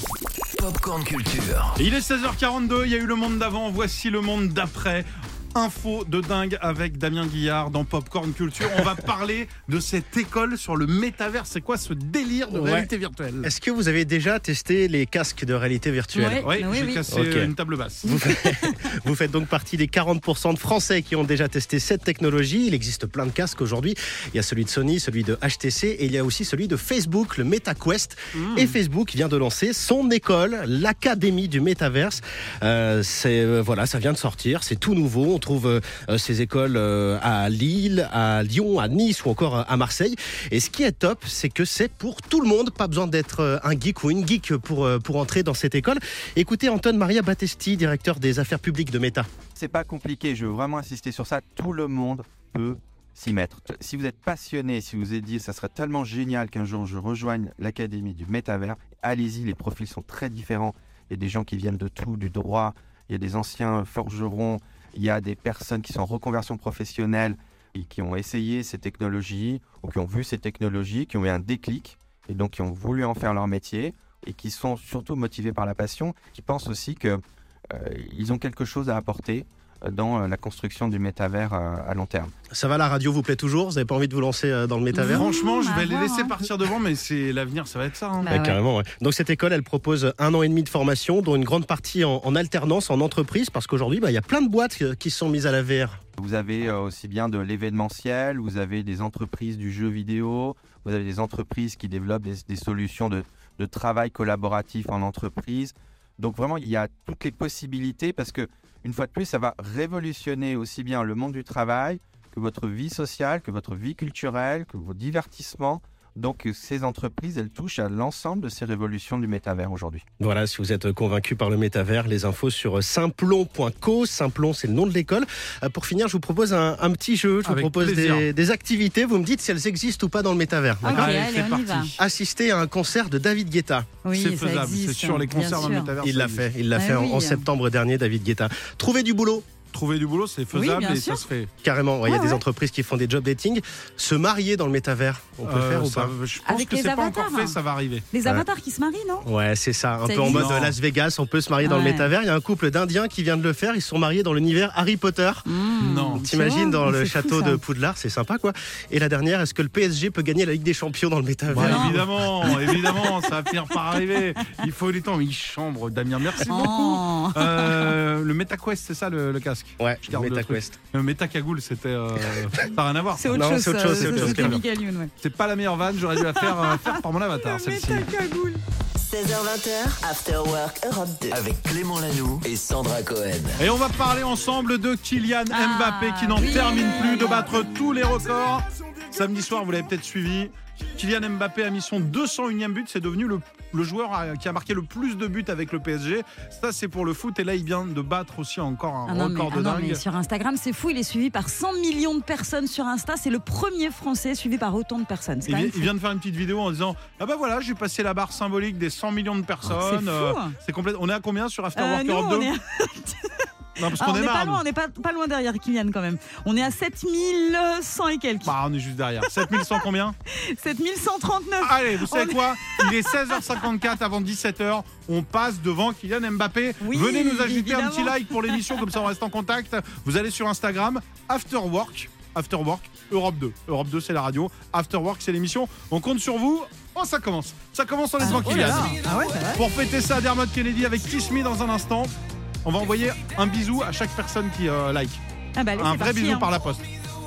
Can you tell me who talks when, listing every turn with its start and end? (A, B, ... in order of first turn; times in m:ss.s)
0:00.6-0:01.8 A
0:01.8-0:13.5 B
0:12.5-0:12.9 C
0:13.4-0:16.5 C
0:16.1-0:17.0 D
0:16.4-0:18.2 B
0:17.1-0:17.5 C
0:18.0-0:49.3 C
0:18.1-0:18.8 D
0:28.4-0:28.7 B
0:49.6-1:22.3 E
1:22.5-1:25.3 C
1:24.9-1:26.4 D
1:25.1-1:28.3 B
1:28.2-1:28.6 D
1:28.3-1:36.0 C
1:36.2-2:00.0 E
2:00.2-2:11.2 C
2:07.4-2:08.3 B
2:10.8-2:11.9 D
2:10.9-2:12.0 B
2:12.0-2:13.9 C
2:14.0-2:15.9 D
2:14.1-2:16.5 B
2:16.0-2:19.5 C
2:16.8-2:17.4 D
2:19.7-2:21.5 B
2:20.5-2:21.2 D
2:21.6-2:26.1 C
2:22.1-2:22.4 D
2:25.4-2:28.1 B
2:26.5-2:27.6 D
2:28.1-2:29.3 D
2:29.2-2:35.5 C
2:30.0-2:30.6 D
2:30.3-2:30.8 B
2:31.6-2:32.1 D
2:35.5-2:37.6 D
2:35.8-2:36.2 B
2:36.2-2:43.0 C
2:41.5-2:54.6 B
2:41.6-2:42.0 D
2:46.4-2:48.0 D
2:49.8-2:50.8 C
2:53.2-2:55.1 D
2:53.3-2:54.6 C
2:55.2-2:58.1 B
2:56.2-2:58.6 D
2:59.0-3:01.4 F
3:01.3-3:03.6 A
3:03.6-3:20.0 B
3:05.5-3:07.6 D
3:19.1-3:25.9 D
3:25.5-3:32.5 B
3:29.6-3:30.6 D
3:31.8-3:38.6 D
3:33.8-3:34.6 B
3:38.4-3:40.2 B
3:39.3-3:39.8 D
3:40.4-3:43.7 D
3:41.6-4:02.1 B
3:46.8-3:48.8 D
3:58.2-3:59.6 D
4:02.6-4:05.2 B
4:05.6-4:06.5 D
4:05.8-4:06.9 B